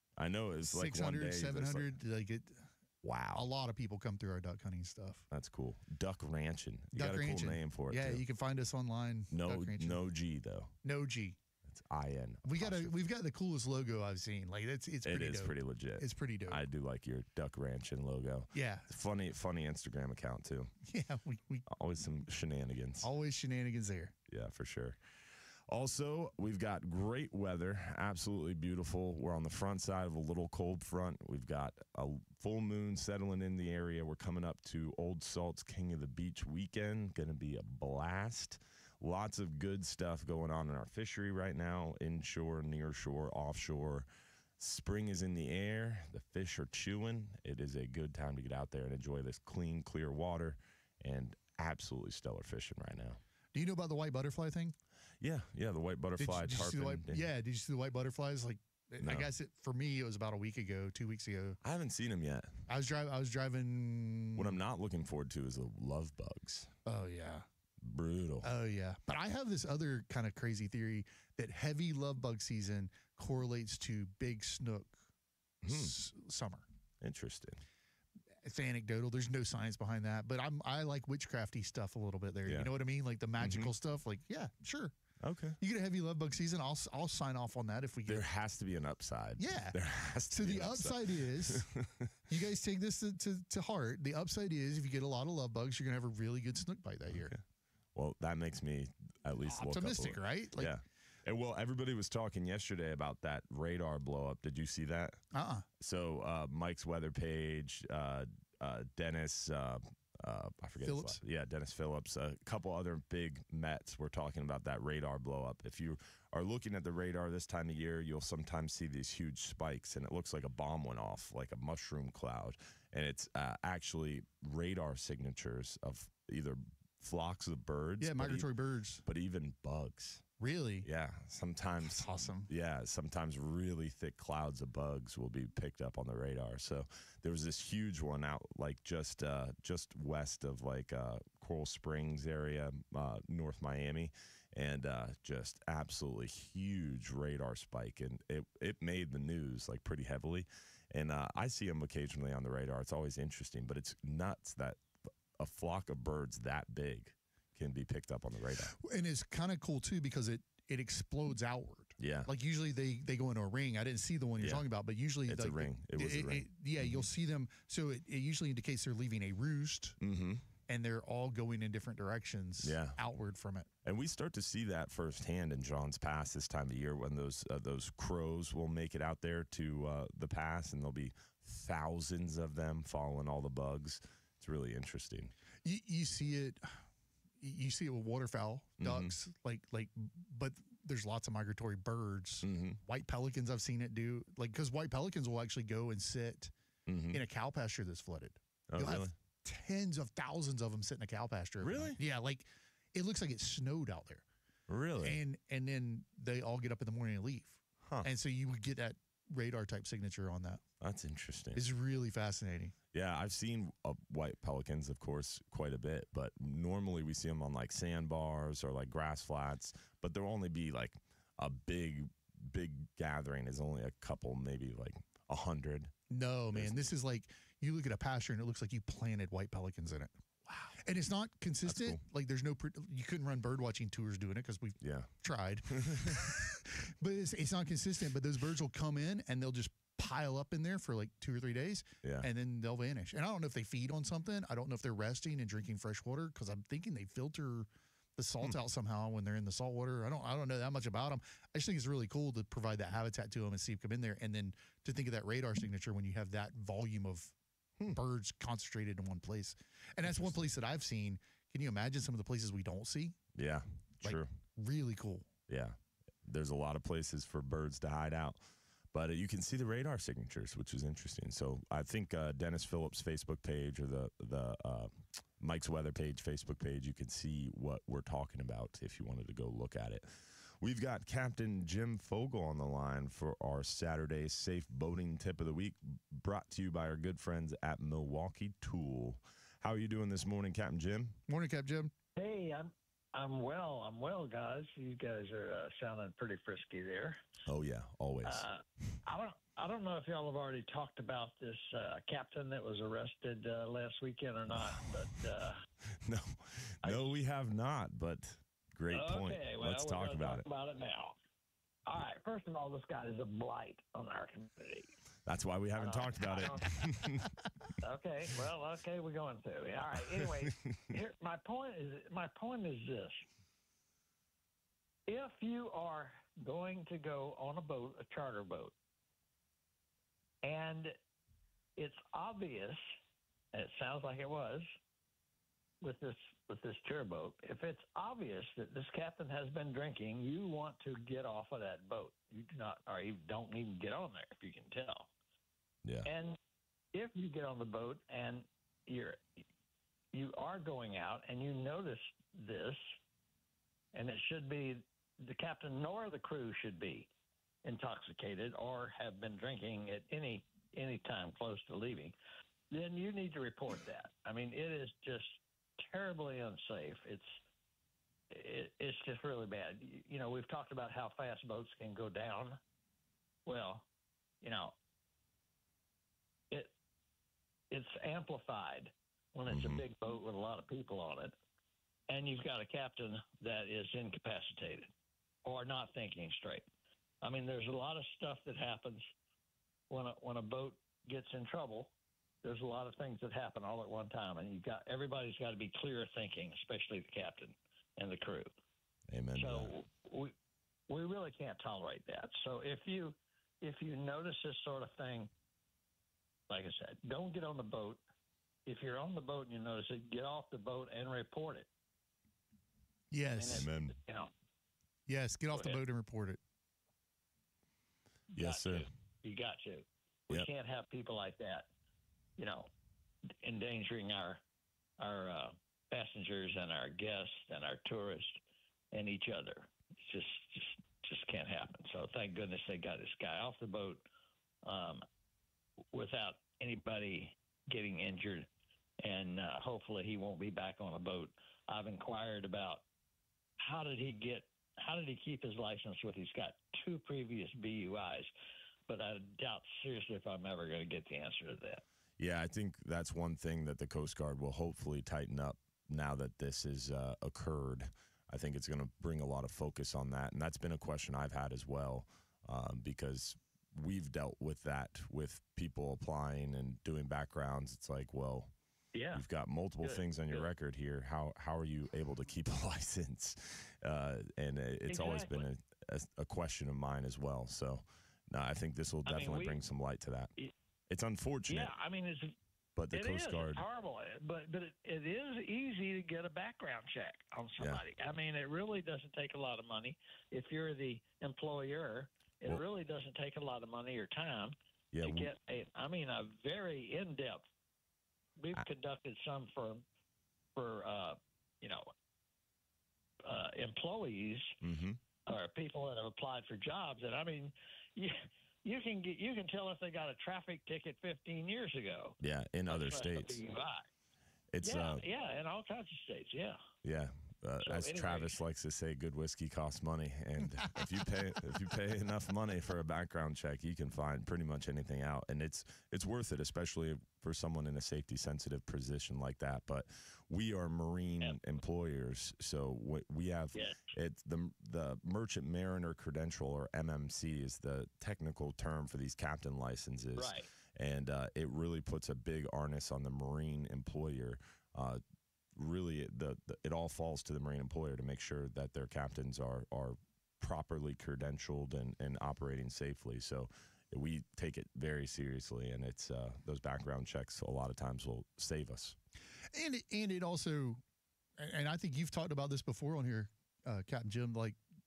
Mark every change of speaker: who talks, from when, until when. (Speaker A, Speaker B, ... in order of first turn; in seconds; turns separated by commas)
Speaker A: 0.2-1.9, Speaker B: 0.7-2.7, Speaker A: 3.0-3.5, Speaker B: 3.3-5.2, Speaker A: 5.3-8.2, Speaker B: 6.9-10.0, Speaker A: 9.3-10.7, Speaker B: 10.8-11.4, Speaker A: 11.6-12.9, Speaker B: 12.4-16.6, Speaker A: 15.0-20.7, Speaker B: 18.5-18.9, Speaker B: 20.9-21.7, Speaker A: 21.6-23.1, Speaker B: 23.0-24.1, Speaker A: 24.3-25.0, Speaker A: 25.7-44.1, Speaker A: 44.6-53.2, Speaker B: 53.5-54.7, Speaker A: 55.2-57.2, Speaker B: 56.2-61.6, Speaker A: 59.0-59.3, Speaker A: 61.6-62.7, Speaker B: 62.7-64.5, Speaker A: 64.3-66.7, Speaker B: 66.8-67.5, Speaker A: 67.8-68.5, Speaker B: 68.4-75.0, Speaker A: 75.6-76.0, Speaker B: 75.7-76.6, Speaker A: 77.0-77.6, Speaker B: 78.4-84.9, Speaker A: 82.4-82.7, Speaker A: 83.4-83.7, Speaker A: 85.2-85.6, Speaker B: 85.6-88.2, Speaker A: 88.0-92.1, Speaker B: 89.4-91.7, Speaker B: 92.3-97.3, Speaker A: 97.1-97.4, Speaker A: 97.9-105.2, Speaker B: 99.5-100.7, Speaker B: 105.3-105.7, Speaker A: 105.8-128.5, Speaker B: 110.8-111.2, Speaker B: 128.0-129.0, Speaker A: 129.0-130.2, Speaker B: 130.4-130.9, Speaker A: 130.8-154.8, Speaker B: 131.8-132.5, Speaker A: 155.4-158.7, Speaker B: 158.8-170.0, Speaker A: 162.0-162.3, Speaker A: 164.4-164.7, Speaker A: 165.2-167.1, Speaker A: 170.0-170.4, Speaker B: 170.7-173.7, Speaker A: 172.6-173.0, Speaker A: 173.8-185.3, Speaker B: 185.6-186.8, Speaker B: 187.4-196.5, Speaker A: 188.8-189.1, Speaker A: 192.4-192.8, Speaker A: 196.8-197.2, Speaker B: 197.1-204.2, Speaker A: 198.7-199.1, Speaker A: 201.6-202.0, Speaker A: 204.7-205.2, Speaker B: 205.0-210.6, Speaker A: 207.8-208.1, Speaker A: 210.8-211.6, Speaker B: 211.5-212.7, Speaker A: 212.9-225.9, Speaker B: 226.1-230.1, Speaker A: 226.5-226.9, Speaker A: 230.5-230.8, Speaker B: 230.8-257.3, Speaker A: 231.6-232.0, Speaker A: 234.8-235.1, Speaker A: 235.7-236.3, Speaker A: 242.0-242.3, Speaker B: 257.9-263.1, Speaker A: 260.0-260.5, Speaker A: 263.3-264.3, Speaker B: 264.0-265.3, Speaker A: 265.5-291.2, Speaker B: 291.3-291.9, Speaker C: 292.1-297.2, Speaker A: 297.4-298.5, Speaker C: 298.2-305.6, Speaker A: 304.5-305.0, Speaker A: 306.0-310.5, Speaker C: 306.8-307.1, Speaker C: 308.9-311.2, Speaker C: 311.9-314.9, Speaker A: 315.2-317.3, Speaker C: 315.8-317.2, Speaker C: 317.8-323.2, Speaker A: 319.9-320.9, Speaker C: 325.1-328.7, Speaker C: 330.4-331.0, Speaker C: 331.8-332.8, Speaker C: 333.5-334.7, Speaker C: 335.8-345.1, Speaker A: 345.8-346.1, Speaker C: 346.0-346.4, Speaker C: 346.9-349.2, Speaker C: 350.1-352.9, Speaker C: 353.9-357.1, Speaker C: 357.6-362.1, Speaker C: 362.7-367.4, Speaker C: 368.3-372.6, Speaker C: 373.4-373.9, Speaker C: 374.4-374.8, Speaker C: 376.5-376.7, Speaker C: 377.7-381.4, Speaker A: 379.5-379.8, Speaker C: 382.1-384.9, Speaker C: 385.4-386.7, Speaker C: 387.2-389.1, Speaker C: 389.9-391.9, Speaker C: 392.4-398.5, Speaker A: 399.1-399.7, Speaker C: 399.4-400.3, Speaker C: 400.9-405.3, Speaker C: 406.5-408.0, Speaker C: 408.6-411.7, Speaker B: 413.1-413.7, Speaker C: 413.4-414.3, Speaker A: 413.5-413.9, Speaker B: 415.1-416.4, Speaker C: 415.5-415.8, Speaker C: 418.3-421.7, Speaker A: 418.4-418.9, Speaker C: 422.4-422.7, Speaker C: 423.4-424.4, Speaker C: 425.0-428.4, Speaker C: 428.9-434.0, Speaker C: 434.6-435.0, Speaker C: 435.9-438.5, Speaker C: 439.0-442.8, Speaker C: 443.6-448.3, Speaker C: 448.9-451.8, Speaker A: 452.2-468.5, Speaker C: 468.9-469.2, Speaker A: 469.1-480.3, Speaker C: 469.8-470.5, Speaker C: 474.9-475.5, Speaker C: 479.0-479.6, Speaker A: 480.9-481.7, Speaker C: 481.5-482.3, Speaker A: 482.8-483.6, Speaker C: 482.9-497.5, Speaker A: 487.6-487.8, Speaker A: 494.9-495.3, Speaker C: 498.4-499.8, Speaker C: 500.5-501.9, Speaker C: 503.2-504.5, Speaker A: 504.6-505.0, Speaker C: 505.3-513.9, Speaker A: 512.2-513.4, Speaker A: 514.5-515.0, Speaker C: 514.6-516.6, Speaker A: 516.8-545.0, Speaker C: 517.6-518.4, Speaker C: 540.1-540.5, Speaker A: 545.5-559.0, Speaker B: 559.5-560.8, Speaker B: 561.4-564.6